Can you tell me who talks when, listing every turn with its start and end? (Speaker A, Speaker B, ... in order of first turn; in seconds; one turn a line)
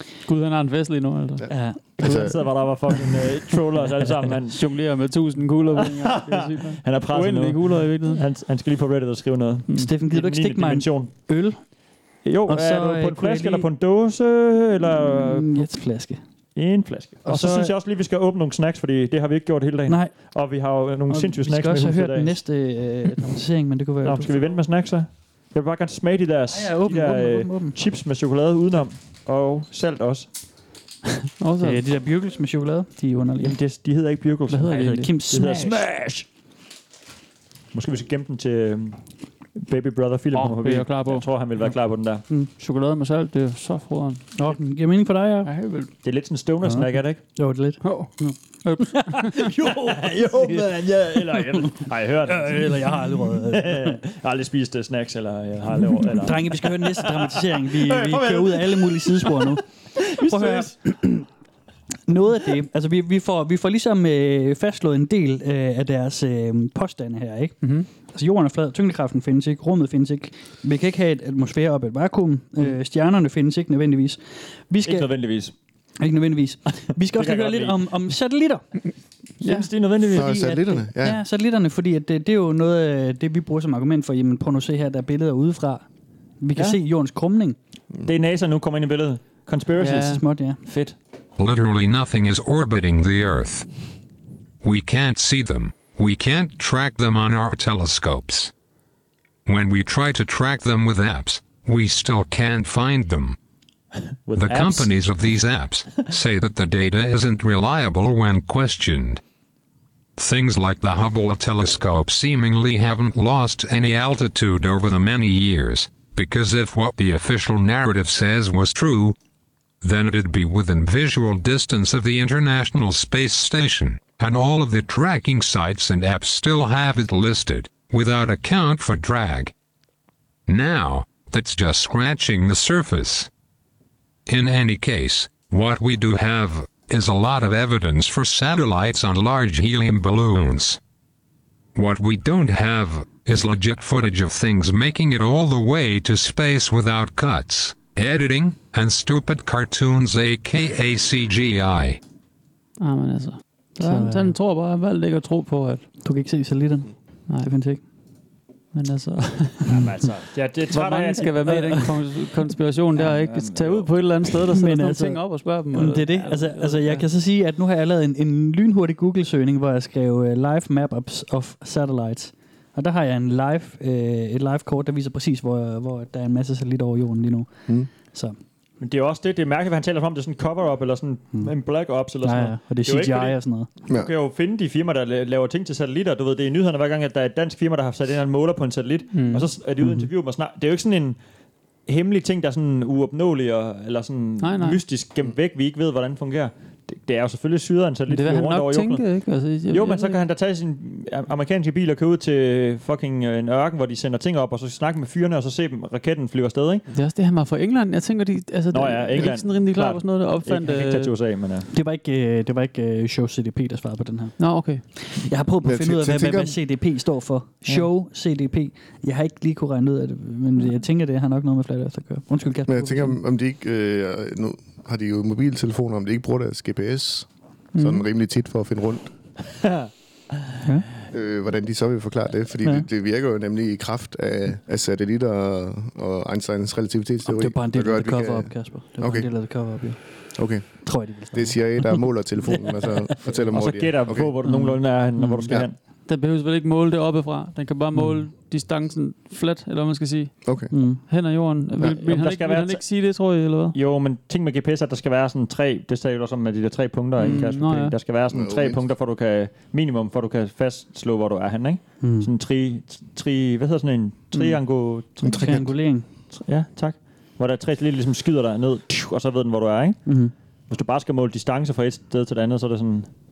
Speaker A: 0.2-1.5
Speaker B: 1.4-2.4
Speaker C: 1.5-2.4
Speaker D: 2.0-4.6
Speaker A: 4.5-8.2
Speaker D: 5.7-11.1
Speaker C: 9.7-11.7
Speaker D: 12.2-15.7
Speaker C: 12.5-13.7
Speaker C: 14.9-16.2
Speaker D: 16.6-22.4
Speaker C: 17.2-17.7
Speaker C: 19.9-20.1
Speaker C: 21.1-24.6
Speaker D: 24.0-30.3
Speaker C: 26.5-27.8
Speaker A: 31.4-31.8
Speaker C: 31.6-33.6
Speaker D: 33.4-36.2
Speaker A: 34.5-35.1
Speaker C: 34.6-35.8
Speaker D: 37.7-39.0
Speaker D: 39.5-42.2
Speaker A: 40.3-41.3
Speaker A: 42.5-44.4
Speaker C: 44.4-45.5
Speaker A: 45.5-45.9
Speaker D: 46.0-47.2
Speaker C: 46.7-54.0
Speaker A: 47.8-48.1
Speaker A: 48.6-49.5
Speaker D: 49.5-60.8
Speaker C: 56.1-61.3
Speaker C: 62.1-75.1
Speaker A: 67.6-67.9
Speaker D: 74.8-75.5
Speaker C: 76.0-78.6
Speaker D: 77.1-77.8
Speaker D: 79.4-80.4
Speaker A: 79.4-79.7
Speaker C: 80.1-85.8
Speaker B: 80.1-81.2
Speaker C: 86.4-87.6
Speaker D: 88.0-91.0
Speaker A: 89.8-90.2
Speaker C: 89.8-90.6
Speaker E: 91.4-93.7
Speaker E: 94.6-98.5
Speaker E: 99.5-103.4
Speaker D: 104.2-104.9
Speaker E: 104.4-109.2
Speaker E: 110.2-119.2
Speaker E: 119.8-129.5
Speaker E: 130.5-133.3
Speaker E: 134.3-140.8
Speaker E: 141.8-152.0
Speaker A: 152.8-155.8
Speaker C: 153.8-154.3
Speaker C: 156.0-157.8
Speaker A: 158.7-159.8
Speaker D: 159.7-161.4
Speaker A: 160.7-167.0
Speaker C: 161.4-161.8
Speaker D: 162.9-164.0
Speaker C: 164.5-178.4
Speaker D: 178.8-191.2
Speaker C: 182.2-183.7
Speaker A: 189.1-189.5
Speaker D: 191.9-199.1
Speaker A: 194.4-194.8
Speaker A: 198.1-200.2
Speaker D: 199.7-206.8
Speaker A: 206.9-211.1
Speaker D: 208.7-211.7
Speaker C: 211.7-223.2
Speaker A: 214.4-214.8
Speaker B: 215.6-216.6
Speaker B: 222.7-229.1
Speaker A: 227.8-228.1
Speaker D: 229.5-229.9
Speaker B: 231.1-239.3
Speaker C: 237.2-240.0
Speaker B: 240.4-244.3
Speaker C: 240.6-242.9
Speaker D: 243.5-245.8
Speaker C: 244.4-245.4
Speaker A: 246.1-253.8
Speaker C: 247.9-248.2
Speaker B: 250.4-250.7
Speaker C: 250.7-251.0
Speaker D: 251.9-252.8
Speaker D: 253.7-265.6
Speaker A: 257.2-257.9
Speaker B: 258.3-258.9
Speaker C: 262.0-262.3
Speaker B: 265.2-265.7
Speaker C: 265.3-266.1
Speaker D: 266.3-270.0
Speaker C: 270.1-270.3
Speaker D: 270.7-273.1